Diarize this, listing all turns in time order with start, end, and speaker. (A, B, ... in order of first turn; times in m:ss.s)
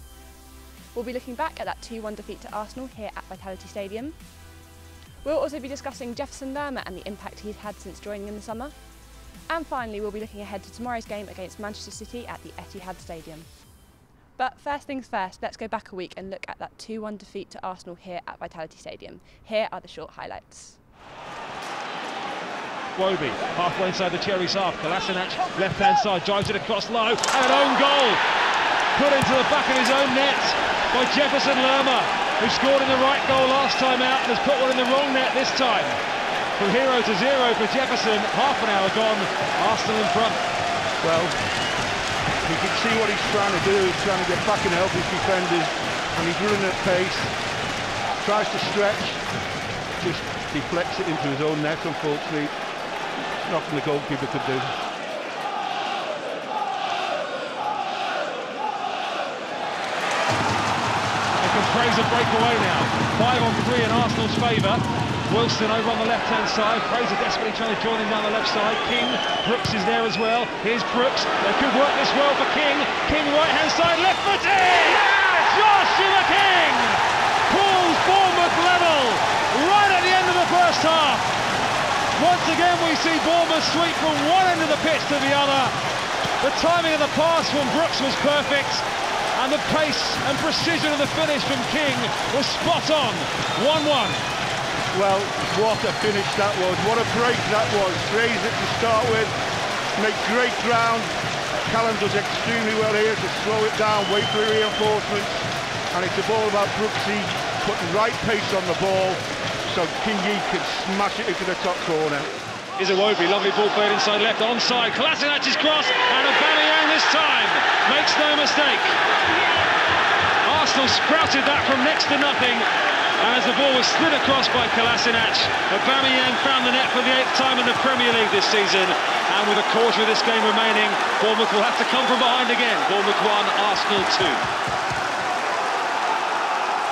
0:00.9-0:04.2 A
0:05.2-0:08.7 A
0:09.5-0:13.5 A
0:14.4-0:20.8 A
0:23.0-0:28.2 B
0:29.0-0:36.0 B
0:36.6-0:40.4 B
0:41.0-0:41.4 C
0:42.4-0:47.4 C
0:48.2-0:49.2 C
0:50.0-0:52.5 C
0:53.4-0:54.8 C
1:01.4-1:21.3 B
1:22.2-1:25.8 B
1:26.4-1:34.2 B
1:34.9-1:39.3 C
1:40.0-1:41.1 C
1:41.7-1:52.3 C
1:52.8-1:59.0 B
2:00.4-2:02.7 B
2:03.2-2:14.4 B